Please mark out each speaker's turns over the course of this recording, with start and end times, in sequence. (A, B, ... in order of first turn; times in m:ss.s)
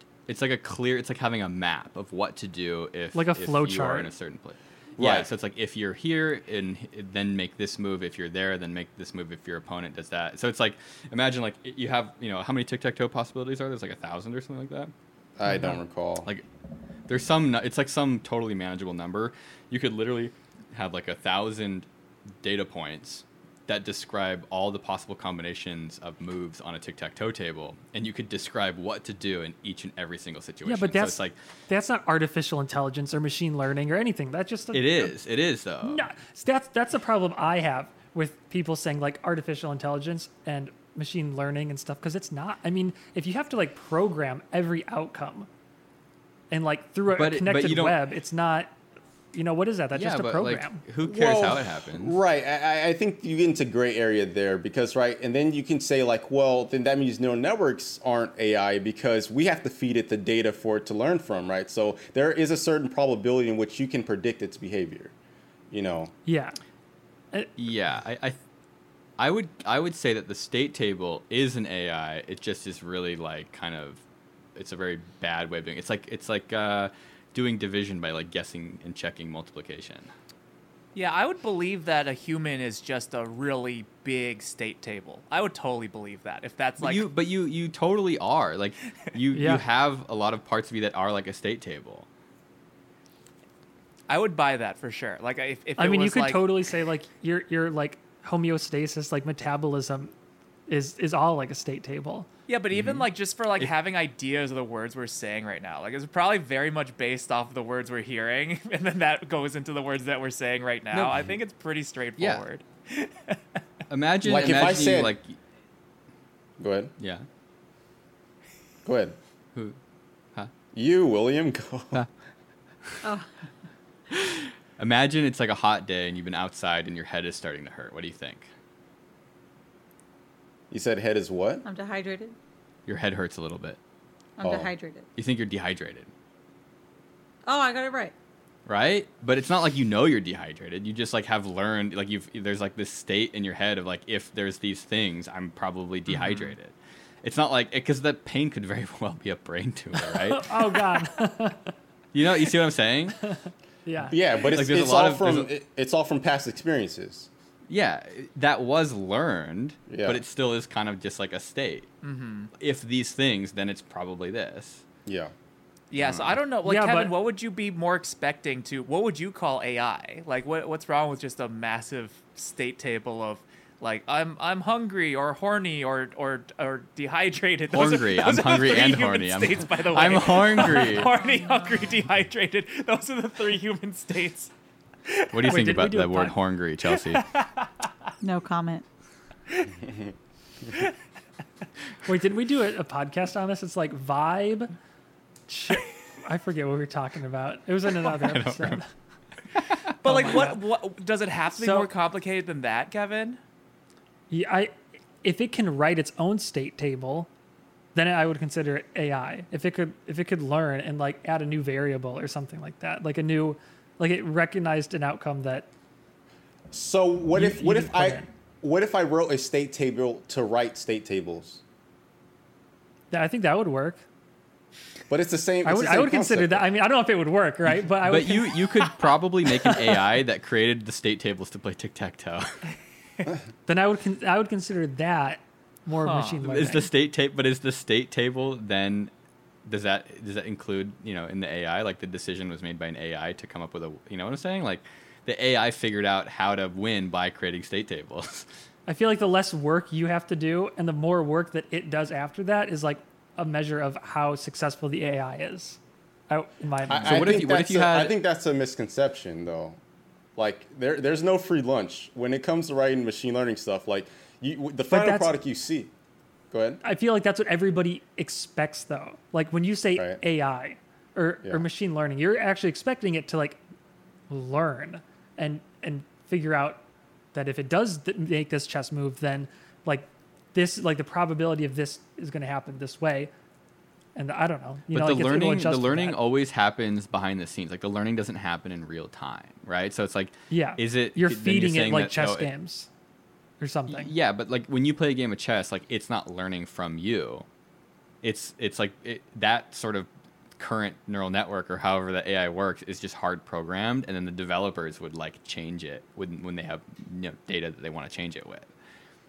0:00.3-0:14.9 A
0:03.1-0:04.1 B
0:05.0-0:05.3 C
0:15.4-0:16.3 C
0:15.4-0:15.7 B
0:17.1-0:21.9 A
0:22.4-0:31.3 A
0:30.6-0:35.1 B
0:34.7-0:36.1 A
0:35.8-0:45.5 B
0:46.5-0:48.7 B
0:47.1-0:48.0 A
0:49.3-0:50.8 B
0:49.9-0:52.2 A
0:51.0-1:05.1 C
1:05.7-1:06.1 C
1:06.2-1:06.6 B
1:07.6-1:08.4 A
1:09.2-1:14.0 A
1:14.6-1:20.1 A
1:20.9-1:27.0 D
1:26.8-1:32.1 A
1:29.3-1:29.6 B
1:34.1-1:36.5 D
1:35.8-1:40.1 B
1:40.7-1:42.3 B
1:42.5-1:53.6 D
1:42.7-1:43.0 A
1:50.9-1:51.2 A
1:52.2-1:52.4 A
1:53.9-1:55.4 A
1:54.2-1:55.1 C
1:56.6-1:56.9 C
1:57.0-1:57.2 A
1:58.8-1:59.2 C
2:00.7-2:02.0 C
2:03.0-2:03.3 E
2:04.1-2:08.5 A
2:10.7-2:11.6 C
2:11.6-2:12.3 E
2:12.9-2:13.8 A
2:14.4-2:15.0 E
2:14.4-2:14.7 C
2:15.2-2:16.1 A
2:17.4-2:18.1 E
2:18.6-2:31.0 A
2:26.1-2:26.5 D
2:30.0-2:31.7 B
2:32.1-2:33.2 A
2:33.8-2:34.2 B
2:34.1-2:37.3 C
2:34.5-2:35.5 A
2:37.7-2:41.9 A
2:39.9-2:40.2 C
2:42.0-2:42.5 D
2:42.6-2:44.8 A
2:45.0-2:45.3 C
2:45.9-3:04.5 D
2:46.0-2:46.4 A
2:46.6-2:47.1 B
2:57.7-3:01.1 A
3:05.1-3:05.3 D
3:05.3-3:07.2 A
3:05.4-3:06.3 B
3:07.0-3:07.7 D
3:08.2-3:08.8 E
3:12.0-3:14.7 B
3:15.5-3:18.8 B
3:18.0-3:18.8 A
3:19.5-3:20.4 A
3:20.0-3:20.6 B
3:20.0-3:23.4 D
3:21.6-3:21.9 B
3:24.3-3:27.3 B
3:27.9-3:35.7 B
3:36.7-3:41.6 C
3:37.3-3:38.2 B
3:43.1-3:44.0 B
3:45.1-3:46.6 C
3:45.6-3:48.9 B
3:47.7-3:52.7 A
3:53.7-3:56.9 B
3:56.0-3:56.4 D
3:56.4-3:59.1 A
3:59.6-4:08.5 A
4:08.9-4:17.4 B
4:16.8-4:19.8 C
4:17.0-4:18.1 A
4:20.4-4:25.9 C
4:24.9-4:25.3 B
4:26.5-4:26.8 C
4:26.8-4:33.6 B
4:34.3-4:36.8 B
4:37.3-4:43.3 B
4:44.1-4:46.2 B
4:44.9-4:52.5 A
4:50.5-4:52.9 B
4:53.6-4:54.1 B
4:53.9-4:57.4 A
4:58.2-5:00.1 A
5:00.6-5:08.7 A